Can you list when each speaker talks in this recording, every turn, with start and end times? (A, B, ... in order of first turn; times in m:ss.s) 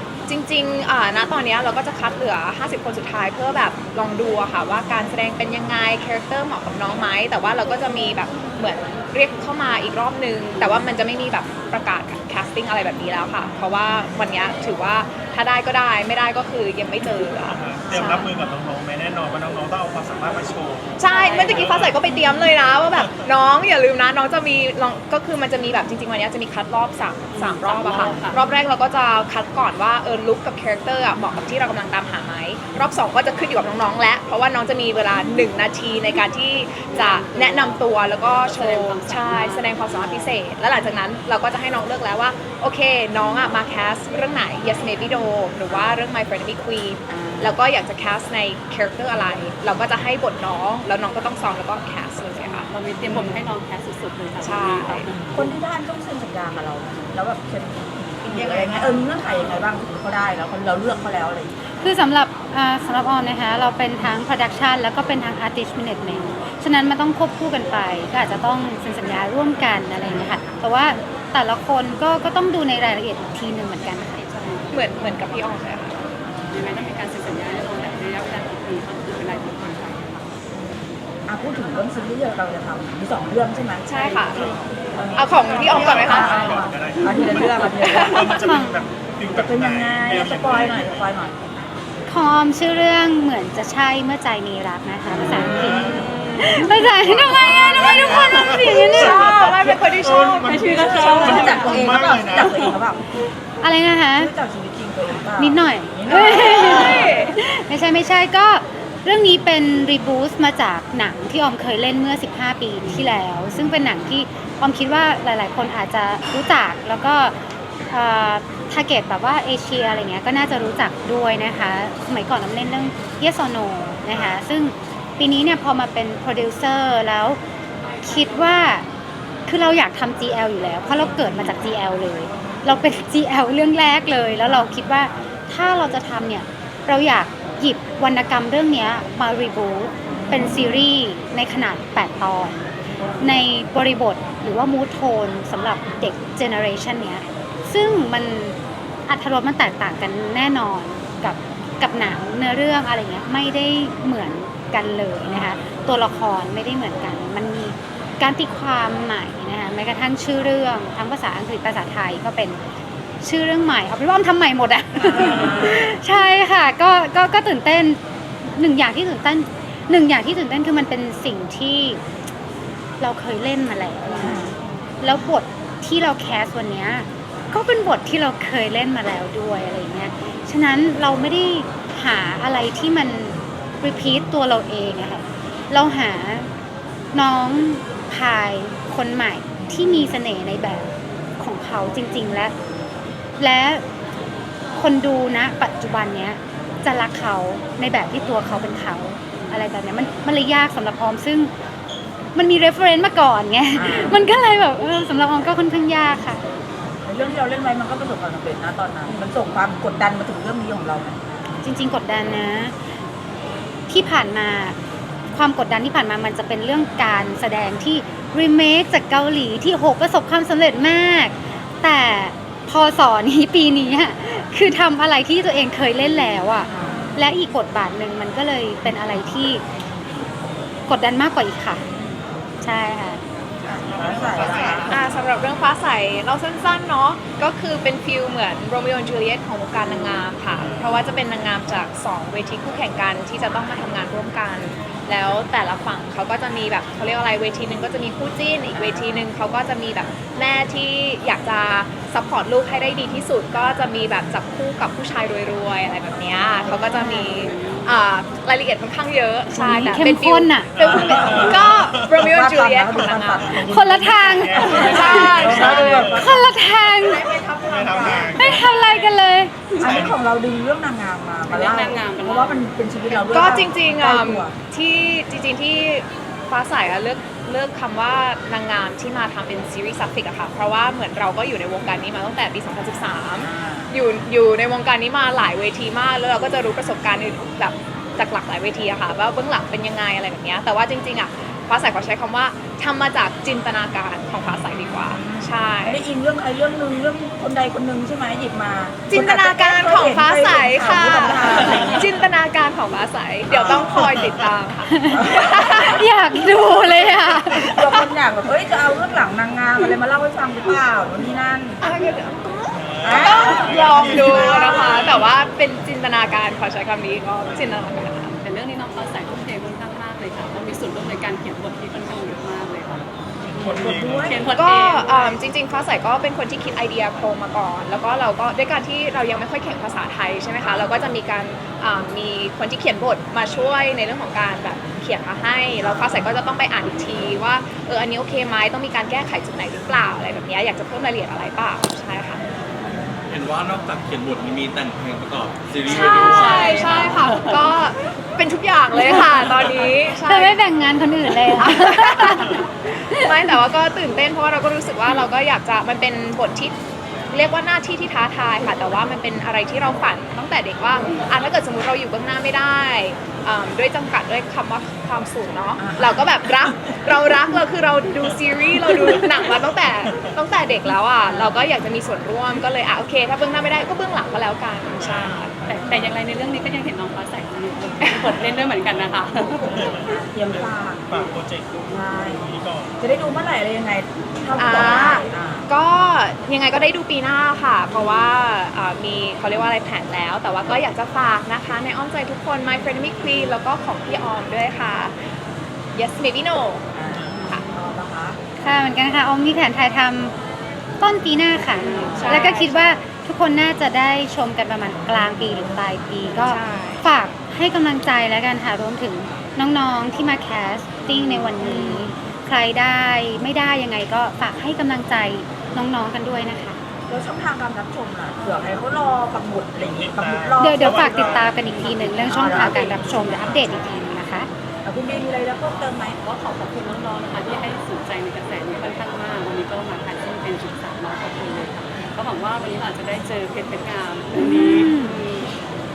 0:00.3-0:18.2 A
0:17.6-0:22.0 B
0:21.0-0:53.3 A
0:21.1-0:21.4 C
0:27.3-0:28.5 C
0:36.9-0:37.8 C
0:38.5-0:40.4 C
0:47.1-0:47.6 D
0:52.6-0:55.5 C
0:54.4-0:55.1 A
0:55.3-1:01.6 D
1:01.8-1:14.2 E
1:13.8-1:15.7 C
1:14.7-1:16.0 A
1:16.5-1:20.4 C
1:21.3-1:28.4 D
1:23.8-1:24.5 A
1:24.4-1:31.0 B
1:25.1-1:26.6 A
1:27.8-1:28.2 A
1:28.4-1:28.8 E
1:29.3-1:31.4 D
1:32.1-1:39.2 E
1:35.3-1:36.1 B
1:36.1-1:36.6 A
1:36.9-1:39.5 B
1:38.9-1:41.3 A
1:39.4-1:39.8 D
1:40.0-1:42.8 B
1:40.5-1:41.8 C
1:40.5-1:43.0 D
1:43.6-1:44.3 E
1:44.2-1:46.6 D
1:45.4-1:57.3 E
1:46.1-1:47.4 A
1:57.9-2:07.4 E
2:08.0-2:08.9 E
2:09.5-2:22.6 E
2:23.2-2:28.6 E
2:29.1-2:42.6 E
2:35.3-2:35.5 D
2:43.2-2:52.0 E
2:53.0-3:06.5 E
2:54.2-2:54.5 D
3:07.1-3:12.5 E
3:13.4-3:13.8 E
3:14.7-3:21.5 E
3:22.3-3:26.4 E
3:23.7-3:24.3 D
3:27.0-3:31.2 D
3:31.6-3:32.8 E
3:33.9-3:34.8 E
3:35.3-3:49.6 E
3:50.9-3:51.8 E
3:52.6-3:53.2 E
3:53.6-3:55.1 B
3:53.8-3:54.9 D
3:54.9-4:23.5 A
4:16.6-4:18.0 C
4:16.9-4:17.3 E
4:19.5-4:21.3 E
4:20.7-4:22.4 B
4:21.1-4:21.6 D
4:22.2-4:23.6 D
4:22.9-4:26.5 B
4:23.7-4:27.3 E
4:24.6-4:26.4 D
4:24.8-4:26.1 A
4:27.0-4:28.4 D
4:27.6-4:28.7 B
4:28.3-4:29.5 E
4:28.8-4:29.0 C
4:29.7-4:30.0 C
4:29.8-4:34.6 D
4:29.8-4:30.2 B
4:31.4-4:32.7 C
4:33.1-4:56.1 A
4:43.4-4:43.9 D
4:55.0-5:01.8 D
4:59.1-5:06.0 A
5:03.5-5:04.2 D
5:03.9-5:04.2 B
5:05.1-5:05.9 D
5:05.9-5:07.9 E
5:07.7-5:11.8 D
5:11.8-5:18.4 A
5:12.7-5:15.2 B
5:13.0-5:15.1 D
5:18.4-5:25.4 C
5:23.4-5:24.4 B
5:23.7-5:24.5 D
5:24.4-5:42.4 A
5:35.8-5:36.2 D
5:43.3-5:47.1 F
5:45.9-5:50.6 A
5:46.8-5:47.6 C
5:50.3-5:53.6 E
5:51.4-5:52.4 A
5:53.0-5:56.7 A
5:57.3-6:15.5 A
6:05.8-6:06.7 D
6:11.3-6:11.6 D
6:14.9-6:15.3 B
6:15.6-6:20.0 C
6:19.6-6:21.3 D
6:19.7-6:23.0 B
6:21.8-6:22.4 D
6:23.0-6:25.7 D
6:24.6-6:35.3 A
6:35.9-6:36.9 A
6:36.9-6:38.4 D
6:37.4-6:37.7 A
6:38.6-6:40.3 E
6:41.0-6:56.8 E
6:42.1-6:43.0 A
6:46.4-6:47.1 A
6:51.1-6:52.1 A
6:57.1-7:00.9 D
6:59.8-7:02.3 B
7:00.6-7:04.5 E
7:02.2-7:03.3 D
7:02.9-7:03.8 B
7:04.8-7:06.2 D
7:06.2-7:15.5 C
7:14.3-7:15.2 E